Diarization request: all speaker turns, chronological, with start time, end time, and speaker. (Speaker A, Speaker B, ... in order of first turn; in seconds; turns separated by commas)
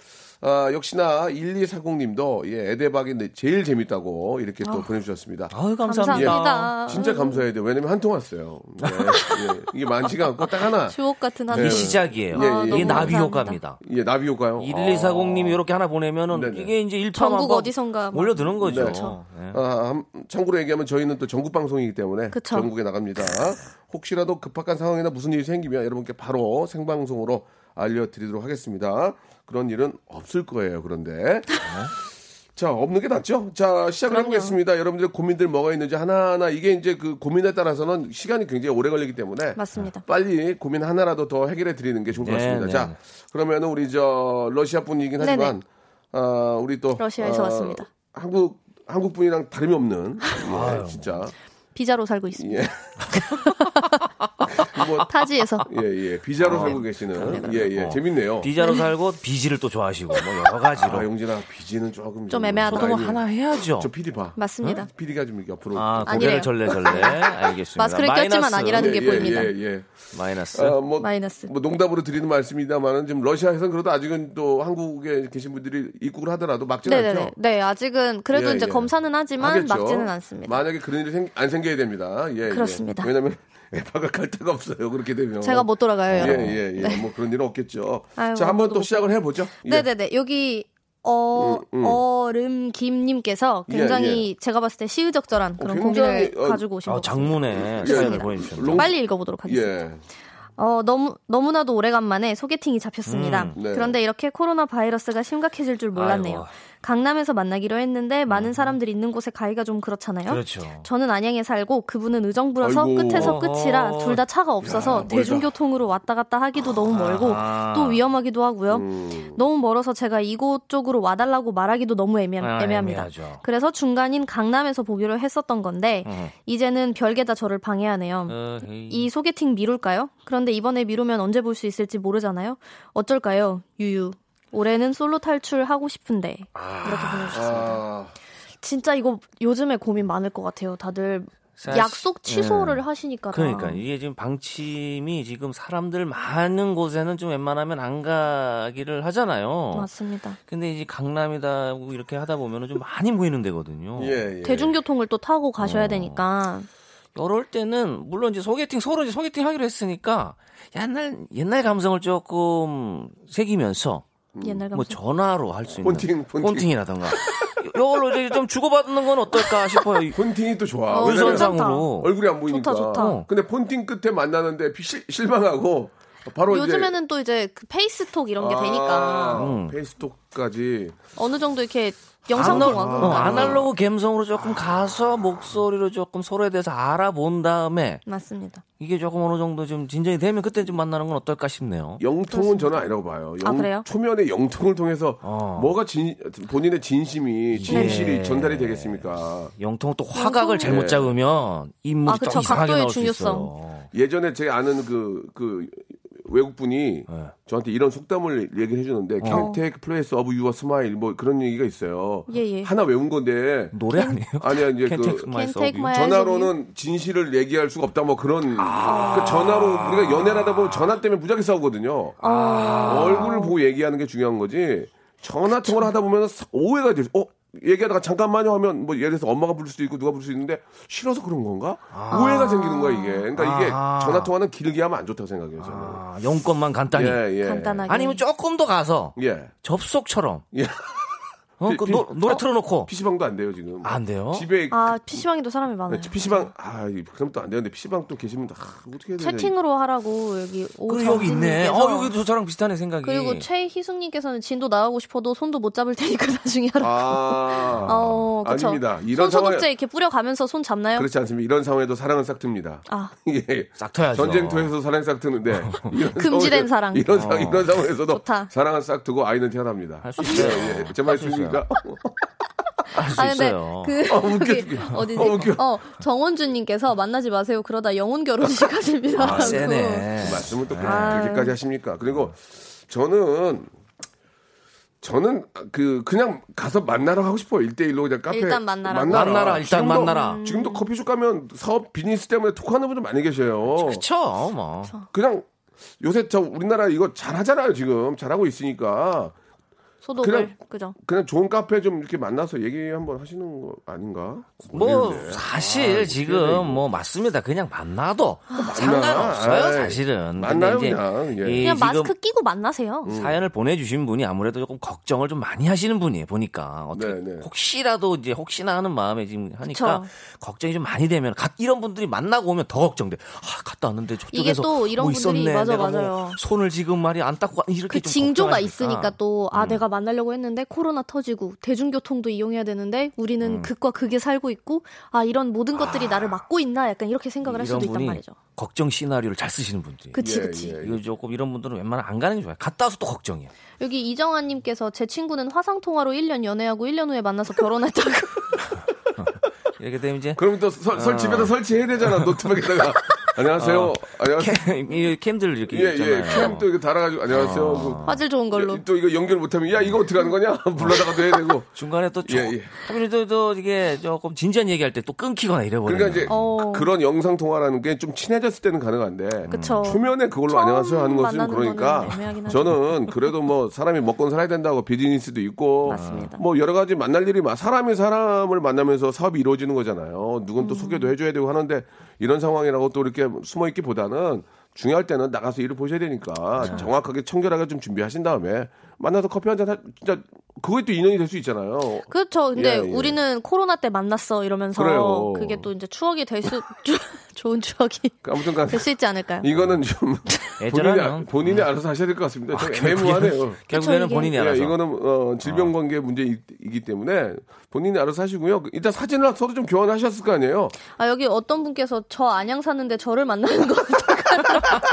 Speaker A: 0.4-5.5, Speaker B: 4.6-4.9, Speaker C: 5.5-6.8, Speaker B: 5.8-7.5, Speaker A: 6.1-11.0, Speaker B: 9.1-9.6, Speaker B: 10.8-13.6, Speaker A: 11.5-15.6, Speaker C: 11.5-13.8, Speaker C: 14.6-19.6, Speaker A: 16.3-16.7, Speaker B: 17.1-19.1, Speaker A: 18.6-31.9, Speaker B: 22.3-22.7, Speaker C: 31.6-31.9, Speaker A: 32.6-51.3, Speaker B: 34.1-34.5, Speaker B: 39.6-40.0, Speaker C: 42.2-43.0, Speaker B: 45.2-45.5, Speaker B: 47.0-47.9, Speaker C: 50.4-51.2, Speaker B: 51.8-54.0, Speaker A: 52.4-53.2, Speaker A: 54.4-58.5, Speaker B: 54.7-55.8, Speaker C: 56.4-61.1, Speaker B: 56.5-57.7, Speaker B: 58.6-58.9, Speaker A: 60.8-63.2, Speaker B: 62.3-63.1, Speaker C: 62.7-63.9, Speaker A: 63.7-67.1, Speaker B: 64.4-64.9, Speaker C: 65.7-69.5, Speaker B: 66.1-67.2, Speaker B: 67.8-69.5, Speaker A: 68.7-69.9, Speaker C: 70.1-70.8, Speaker A: 70.5-77.3, Speaker B: 71.0-71.5, Speaker B: 76.8-80.6, Speaker A: 78.3-89.9, Speaker B: 82.5-83.1, Speaker B: 85.4-87.1, Speaker C: 86.1-86.6, Speaker B: 88.2-99.8, Speaker A: 91.3-92.0, Speaker A: 93.7-94.3, Speaker A: 95.6-96.6, Speaker C: 96.9-98.9, Speaker A: 97.6-100.0, Speaker B: 100.6-137.8, Speaker C: 103.1-103.6, Speaker A: 103.5-104.0, Speaker C: 106.0-106.5, Speaker C: 108.3-108.8, Speaker C: 110.3-110.9, Speaker A: 112.6-113.4, Speaker C: 113.1-114.2, Speaker A: 114.6-115.5, Speaker C: 116.9-118.0, Speaker A: 118.7-119.4, Speaker C: 122.4-123.4, Speaker C: 126.0-126.3, Speaker C: 128.3-129.1, Speaker C: 136.6-137.5, Speaker A: 137.3-138.1, Speaker B: 138.6-143.8, Speaker C: 141.6-149.9, Speaker B: 149.7-150.4, Speaker C: 150.5-154.2, Speaker A: 154.0-154.7, Speaker B: 154.4-156.7, Speaker C: 155.6-156.2, Speaker C: 157.2-164.1, Speaker A: 164.3-164.6, Speaker B: 164.4-165.0, Speaker C: 164.7-170.2, Speaker A: 165.8-167.5, Speaker A: 170.1-176.9, Speaker B: 170.9-171.9, Speaker C: 171.0-172.1, Speaker B: 172.4-173.2, Speaker C: 173.0-173.2, Speaker B: 176.5-179.4, Speaker A: 178.4-181.0, Speaker C: 179.4-179.8, Speaker B: 181.2-183.6, Speaker A: 182.3-183.7, Speaker C: 182.3-188.0, Speaker B: 188.1-188.6, Speaker C: 188.8-192.0, Speaker A: 192.0-199.5, Speaker B: 192.3-192.9, Speaker B: 193.4-193.9, Speaker C: 195.2-195.7, Speaker C: 197.5-199.1, Speaker B: 197.7-198.1, Speaker C: 199.6-203.9, Speaker B: 200.1-200.8, Speaker A: 200.6-201.1, Speaker B: 202.1-203.5, Speaker A: 203.9-213.8, Speaker C: 209.2-209.5, Speaker B: 209.3-209.6, Speaker B: 212.3-212.7, Speaker C: 213.7-215.9, Speaker A: 214.4-215.3, Speaker B: 215.3-216.5, Speaker A: 215.9-222.2, Speaker C: 218.6-220.9, Speaker B: 218.8-219.3, Speaker C: 222.2-223.3, Speaker B: 222.2-223.5, Speaker A: 222.8-236.0, Speaker B: 225.6-225.9, Speaker C: 231.9-232.5, Speaker B: 232.1-233.3, Speaker C: 233.3-234.3, Speaker C: 235.6-237.2, Speaker A: 236.9-237.8, Speaker B: 237.4-238.2, Speaker C: 237.9-240.4, Speaker A: 239.2-239.5, Speaker A: 240.5-245.2, Speaker C: 241.6-242.9, Speaker C: 243.8-244.5, Speaker B: 244.7-246.5, Speaker A: 245.9-249.5, Speaker B: 249.2-252.1, Speaker C: 250.9-253.5, Speaker B: 253.0-261.1, Speaker A: 256.8-259.6, Speaker C: 257.7-258.2, Speaker A: 260.9-272.1, Speaker B: 262.9-263.1, Speaker C: 263.8-264.7, Speaker C: 265.6-265.9, Speaker B: 266.1-267.1, Speaker C: 267.1-267.7, Speaker B: 268.1-268.5, Speaker C: 270.0-271.6, Speaker B: 270.2-270.6, Speaker C: 272.9-274.0, Speaker B: 273.1-281.6, Speaker A: 274.1-275.6, Speaker A: 279.1-283.7, Speaker C: 279.2-281.3, Speaker A: 285.0-294.0, Speaker B: 288.3-290.9, Speaker C: 289.1-290.4, Speaker C: 293.7-294.9, Speaker A: 295.1-295.5, Speaker A: 296.0-299.4, Speaker B: 300.0-300.9, Speaker A: 300.2-306.8, Speaker C: 304.7-312.1, Speaker A: 308.5-311.7, Speaker B: 311.6-313.1, Speaker A: 313.1-313.4, Speaker C: 313.1-329.8, Speaker A: 316.9-317.5, Speaker B: 319.7-320.1, Speaker B: 324.3-326.4, Speaker B: 327.9-338.4, Speaker C: 333.4-333.7, Speaker A: 335.8-336.1, Speaker C: 337.4-340.2, Speaker B: 340.1-340.8, Speaker A: 340.2-341.0, Speaker C: 340.8-343.5, Speaker B: 343.8-348.6, Speaker C: 349.2-356.7, Speaker A: 350.4-354.6, Speaker A: 355.7-358.0, Speaker C: 357.3-358.2, Speaker B: 358.1-358.8, Speaker A: 358.5-362.7, Speaker C: 360.8-361.1, Speaker C: 361.7-366.4, Speaker A: 365.9-393.2, Speaker B: 366.3-366.9, Speaker C: 369.5-369.9, Speaker B: 369.5-373.1, Speaker B: 375.9-376.4, Speaker C: 375.9-376.3, Speaker B: 380.6-381.1, Speaker C: 386.6-386.9, Speaker B: 392.1-399.5, Speaker A: 394.8-395.7, Speaker A: 398.2-403.6, Speaker C: 400.6-401.6, Speaker C: 402.5-404.8, Speaker B: 403.7-404.4, Speaker A: 404.3-410.8, Speaker C: 405.4-405.7, Speaker B: 410.9-414.8